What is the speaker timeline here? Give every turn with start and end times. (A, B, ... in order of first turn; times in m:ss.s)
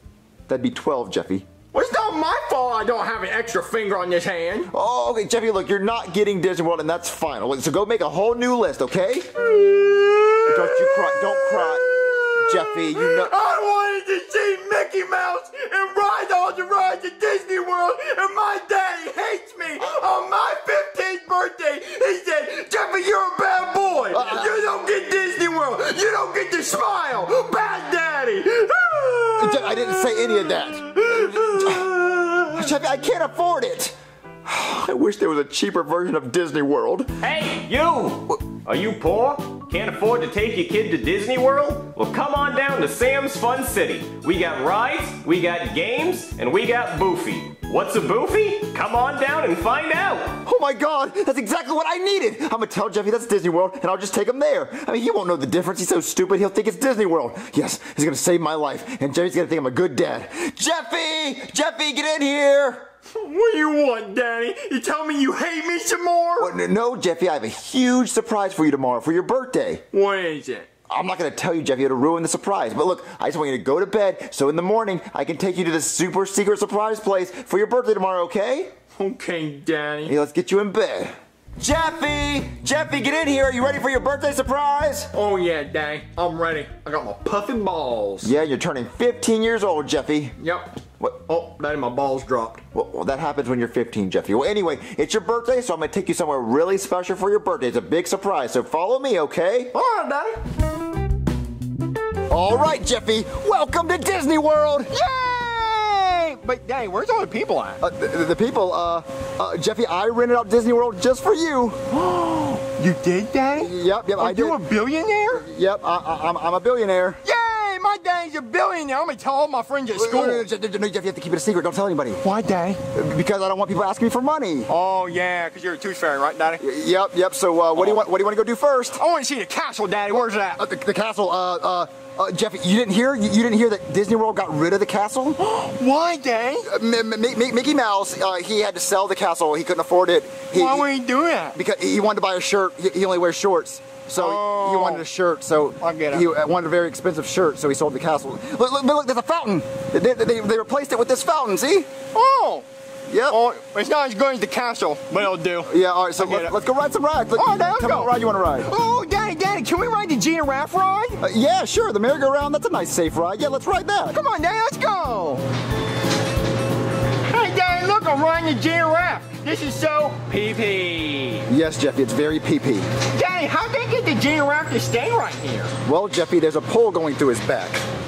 0:00.5-0:01.5 A
0:01.7-0:04.7 B
0:04.7-0:09.3 A
0:09.4-0:30.1 B
0:10.4-0:13.3 A
0:24.1-0:24.5 A
0:29.4-0:31.9 A
0:30.9-0:32.6 B
0:32.5-0:37.1 A
0:37.2-0:50.4 C
0:50.4-1:02.9 A
1:03.1-1:06.5 B
1:06.4-1:09.8 A
1:09.9-1:10.7 B
1:10.9-1:18.7 A
1:18.9-1:20.1 B
1:20.0-1:25.1 A
1:25.1-1:28.3 B
1:28.2-1:30.4 A
1:30.4-1:30.7 B
1:31.3-1:32.6 B
1:32.7-1:39.7 A
1:39.7-1:40.4 B
1:42.3-1:44.9 A
1:44.9-1:47.8 B
1:47.8-1:51.8 A
1:51.9-1:55.4 B
1:53.6-1:54.6 A
1:55.3-1:57.2 A
1:57.2-2:00.4 B
1:59.9-2:02.2 A
2:02.2-2:02.8 B
2:02.9-2:04.7 A
2:04.7-2:06.6 B
2:06.6-2:09.0 A
2:09.0-2:10.6 B
2:10.6-2:15.4 A
2:15.4-2:16.7 B
2:16.6-2:20.8 A
2:20.5-2:21.6 B
2:21.5-2:31.9 A
2:24.2-2:25.0 B
2:25.8-2:26.3 B
2:32.1-2:32.6 B
2:33.1-2:33.4 A
2:33.3-2:36.5 B
2:35.7-2:38.7 A
2:37.4-2:41.2 B
2:41.2-2:44.2 A
2:44.1-2:45.4 B
2:47.3-2:51.4 B
2:51.5-2:52.9 A
2:53.1-2:55.7 B
2:55.8-2:57.8 A